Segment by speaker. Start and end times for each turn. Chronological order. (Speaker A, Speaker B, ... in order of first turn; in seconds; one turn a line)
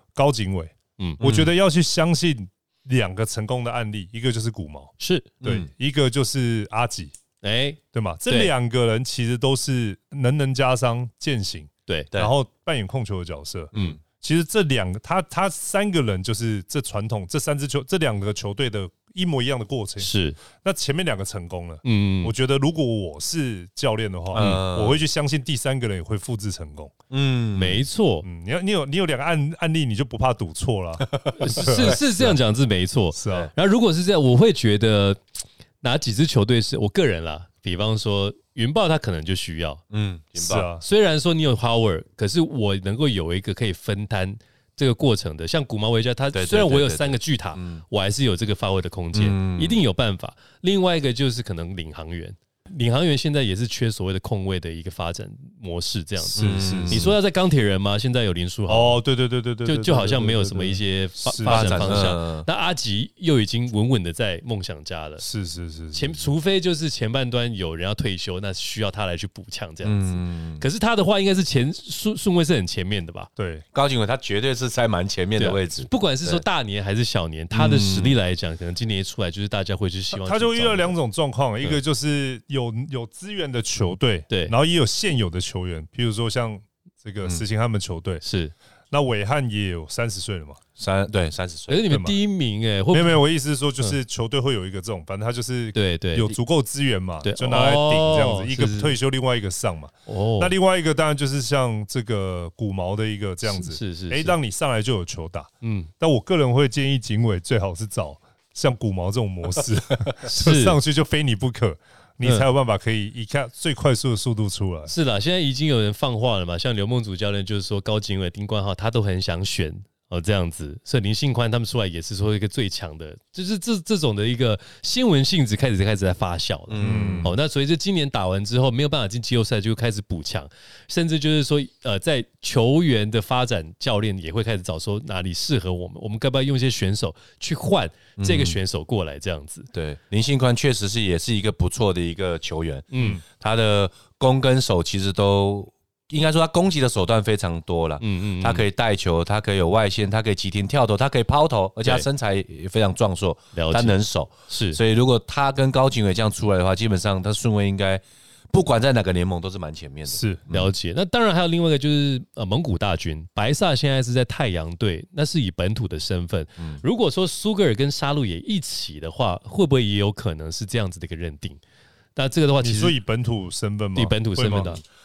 Speaker A: 0.1-7.1
Speaker B: 1.2-1.5
Speaker C: 5.0-5.3
Speaker B: 5.4-5.7
Speaker C: 7.4-8.5
Speaker A: 7.9-26.9
Speaker C: 11.9-12.1
Speaker B: 13.7-14.0
Speaker C: 20.0-20.4
Speaker C: 21.8-22.3
Speaker B: 24.3-25.0
Speaker C: 24.4-24.6
Speaker B: 27.1-27.8
Speaker C: 27.5-28.3
Speaker A: 28.2-32.4
Speaker B: 31.0-32.0
Speaker C: 31.4-35.2
Speaker A: 33.1-33.5
Speaker C: 35.8-39.8
Speaker B: 39.9-40.7
Speaker A: 40.4-40.8
Speaker C: 40.8-59.0
Speaker B: 46.3-47.8
Speaker B: 49.1-49.8
Speaker A: 56.3-57.1
Speaker B: 56.4-57.1
Speaker A: 58.7-62.0
Speaker C: 59.6-65.2
Speaker B: 61.4-62.5
Speaker A: 65.2-66.3
Speaker C: 65.9-73.3
Speaker B: 69.8-70.6
Speaker A: 73.4-73.6
Speaker B: 73.7-76.4
Speaker C: 75.4-80.9
Speaker B: 77.5-78.2
Speaker A: 80.1-88.2
Speaker C: 84.3-84.5
Speaker C: 88.2-88.5
Speaker A: 88.9-90.6
Speaker B: 90.8-91.9
Speaker C: 91.7-93.2
Speaker A: 91.9-92.2
Speaker A: 92.9-114.9
Speaker C: 95.8-96.4
Speaker C: 97.2-99.0
Speaker C: 100.1-100.5
Speaker C: 103.5-104.4
Speaker C: 105.6-105.9
Speaker C: 110.2-110.8
Speaker C: 114.9-139.7
Speaker B: 126.7-127.3
Speaker A: 126.8-127.3
Speaker B: 138.2-138.6
Speaker B: 139.7-160.7
Speaker C: 142.9-143.2
Speaker C: 148.0-148.6
Speaker C: 153.6-154.0
Speaker C: 154.5-154.8
Speaker A: 160.1-160.4
Speaker C: 160.5-171.6
Speaker C: 172.1-173.0
Speaker A: 172.6-174.8
Speaker C: 173.9-174.8